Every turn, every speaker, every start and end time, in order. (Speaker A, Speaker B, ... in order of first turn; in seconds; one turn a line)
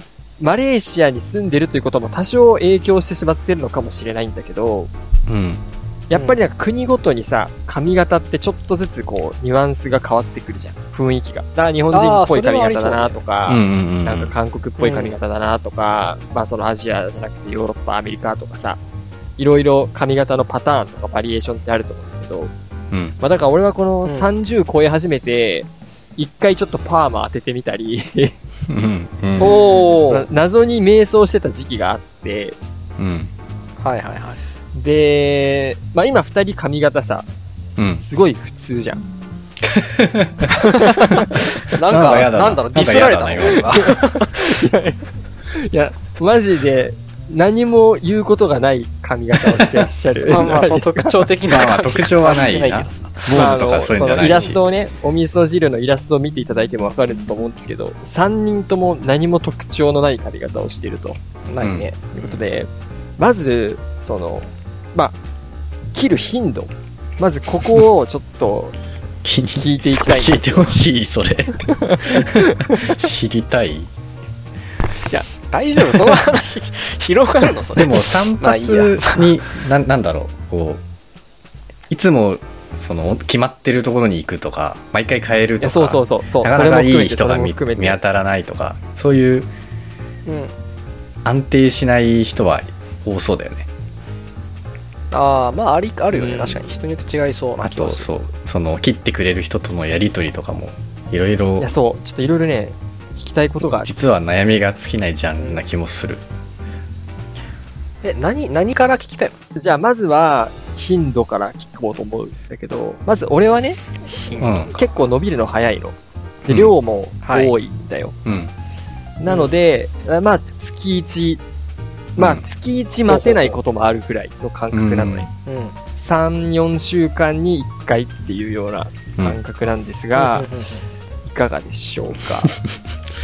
Speaker A: 0.4-4.9
Speaker B: 5.3-5.6
Speaker A: 6.1-18.8
Speaker C: 11.9-13.2
Speaker B: 13.4-14.3
Speaker C: 14.8-15.1
Speaker A: 19.4-22.5
Speaker B: 22.9-23.1
Speaker A: 23.2-28.3
Speaker B: 28.7-29.6
Speaker C: 29.4-30.2
Speaker A: 30.1-32.6
Speaker B: 33.0-33.3
Speaker C: 33.8-34.4
Speaker A: 34.7-37.2
Speaker B: 37.8-38.0
Speaker A: 38.0-39.0
Speaker B: 39.6-41.2
Speaker A: 40.6-41.7
Speaker C: 40.7-44.6
Speaker B: 41.9-43.7
Speaker A: 43.8-51.3
Speaker B: 49.5-49.9
Speaker C: 50.3-53.6
Speaker B: 51.4-54.6
Speaker A: 53.3-61.2
Speaker C: 54.2-54.5
Speaker C: 61.5-62.1
Speaker B: 61.6-61.9
Speaker A: 62.1-65.2
Speaker A: 65.9-68.8
Speaker B: 69.2-73.9
Speaker A: 69.5-70.7
Speaker A: 71.6-72.8
Speaker C: 75.5-79.4
Speaker A: 75.8-76.2
Speaker B: 77.8-80.8
Speaker B: 81.9-89.5
Speaker A: 85.6-88.0
Speaker C: 90.2-90.5
Speaker B: 91.2-93.7
Speaker C: 95.1-98.1
Speaker A: 96.1-96.6
Speaker B: 97.6-101.7
Speaker A: 101.6-103.9
Speaker B: 103.8-106.2
Speaker C: 105.4-105.6
Speaker C: 108.0-109.4
Speaker A: 109.5-113.8
Speaker C: 114.1-114.8
Speaker B: 114.4-114.7
Speaker A: 114.7-118.2
Speaker C: 117.2-117.5
Speaker B: 118.2-118.5
Speaker A: 119.2-121.4
Speaker C: 119.2-119.6
Speaker A: 122.2-125.3
Speaker B: 122.2-122.4
Speaker C: 123.1-123.6
Speaker B: 124.7-125.2
Speaker C: 125.5-125.7
Speaker A: 125.9-130.5
Speaker C: 130.1-130.8
Speaker A: 131.2-132.6
Speaker B: 132.2-132.5